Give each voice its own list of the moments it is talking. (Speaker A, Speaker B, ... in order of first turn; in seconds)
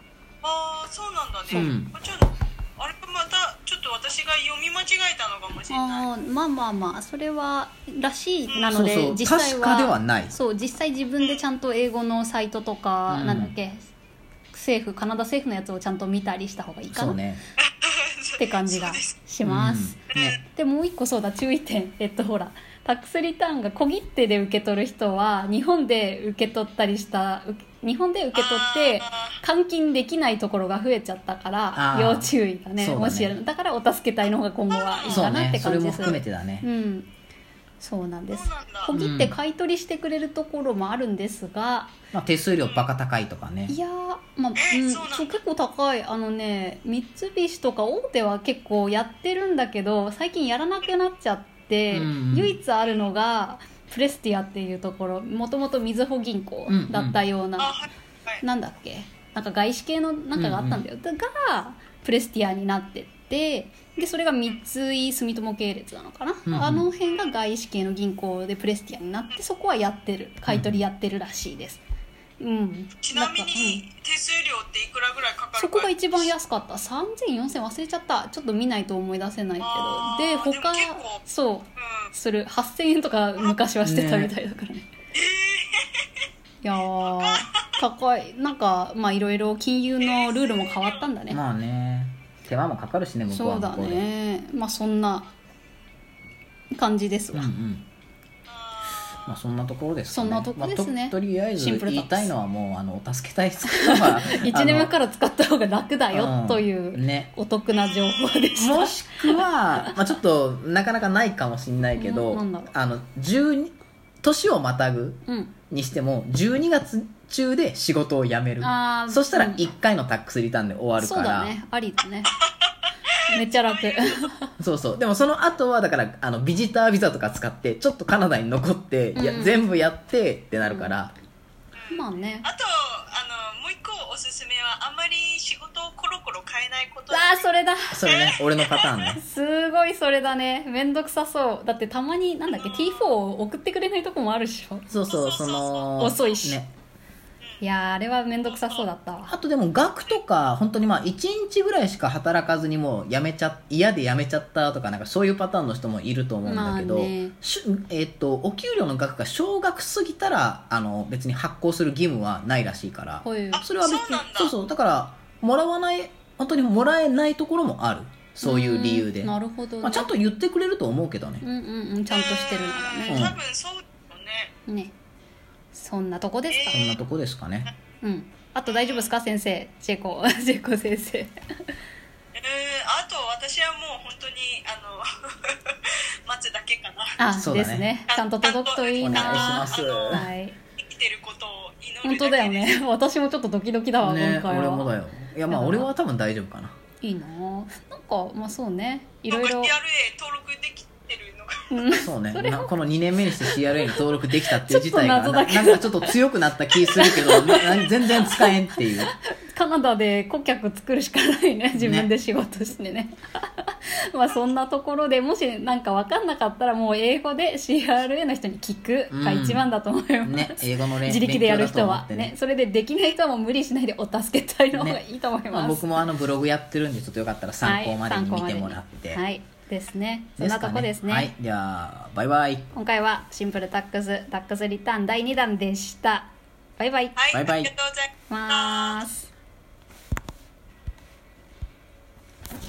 Speaker A: 0.4-6.1, 8.5-8.9, 17.6-19.1, 28.3-29.4, 34.7-35.3, 38.3-38.9, 42.6-42.9, 44.5-45.4, 57.6-58.4, 67.0-67.3, 73.0-76.3, 79.6-81.2, 81.8-82.1, 85.1-86.2, 87.2-87.7, 90.0-91.1, 98.5-99.3, 107.7-108.5, 122.2-124.3, 131.7-137.5, 138.0-139.0, 142.5-143.1, 145.1-146.1, 148.4-148.8, 163.5-164.5, 172.1-174.5, 176.5-176.9, 178.7-179.1, 182.3-187.2, 188.1-192.8, 199.3-201.9, 237.2-239.0
Speaker B: 1.5-1.9, 8.7-10.3, 13.1-13.5, 16.9-17.4, 19.4-20.4, 31.7-33.4, 35.1-36.7, 38.9-39.4, 42.1-43.8, 51.9-52.6, 56.7-57.2, 60.4-60.8, 66.5-66.9, 70.5-70.8, 83.8-84.3, 91.3-94.1, 97.3-97.8, 99.2-104.9, 106.1-107.3, 108.5-115.2, 115.7-121.5, 124.6-131.1, 137.9-139.2, 144.9-146.7, 149.3-171.4, 173.1-173.4, 176.7-177.7, 187.3-187.9, 189.0-190.3, 194.0-196.8, 201.9-209.1, 211.7-212.1, 219.1-219.6, 220.2-222.3, 224.7-229.2, 230.4-232.7, 237.3-237.7
Speaker C: 5.7-13.9, 14.5-17.2, 18.4-37.1, 37.8-41.9, 43.7-57.8, 58.4-71.8, 72.4-73.8, 75.6-84.9, 86.6-91.4, 93.2-95.3, 96.7-97.5, 100.1-102.3, 103.6-110.0, 112.0-112.7, 115.2-115.5, 118.6-119.7, 121.0-122.3, 123.3-124.5, 129.1-129.7, 130.6-130.9, 131.9-132.5, 137.1-138.1, 139.1-145.0, 145.9-146.6, 147.6-149.3, 156.4-157.3, 163.2-163.7, 168.4-170.2, 171.4-173.3, 174.7-174.9, 175.7-177.0, 178.0-181.3, 187.2-190.6, 192.0-194.9, 195.5-195.9, 197.0-199.8, 201.7-202.7, 203.2-226.0, 227.6-231.3, 232.7-237.3, 238.3-239.3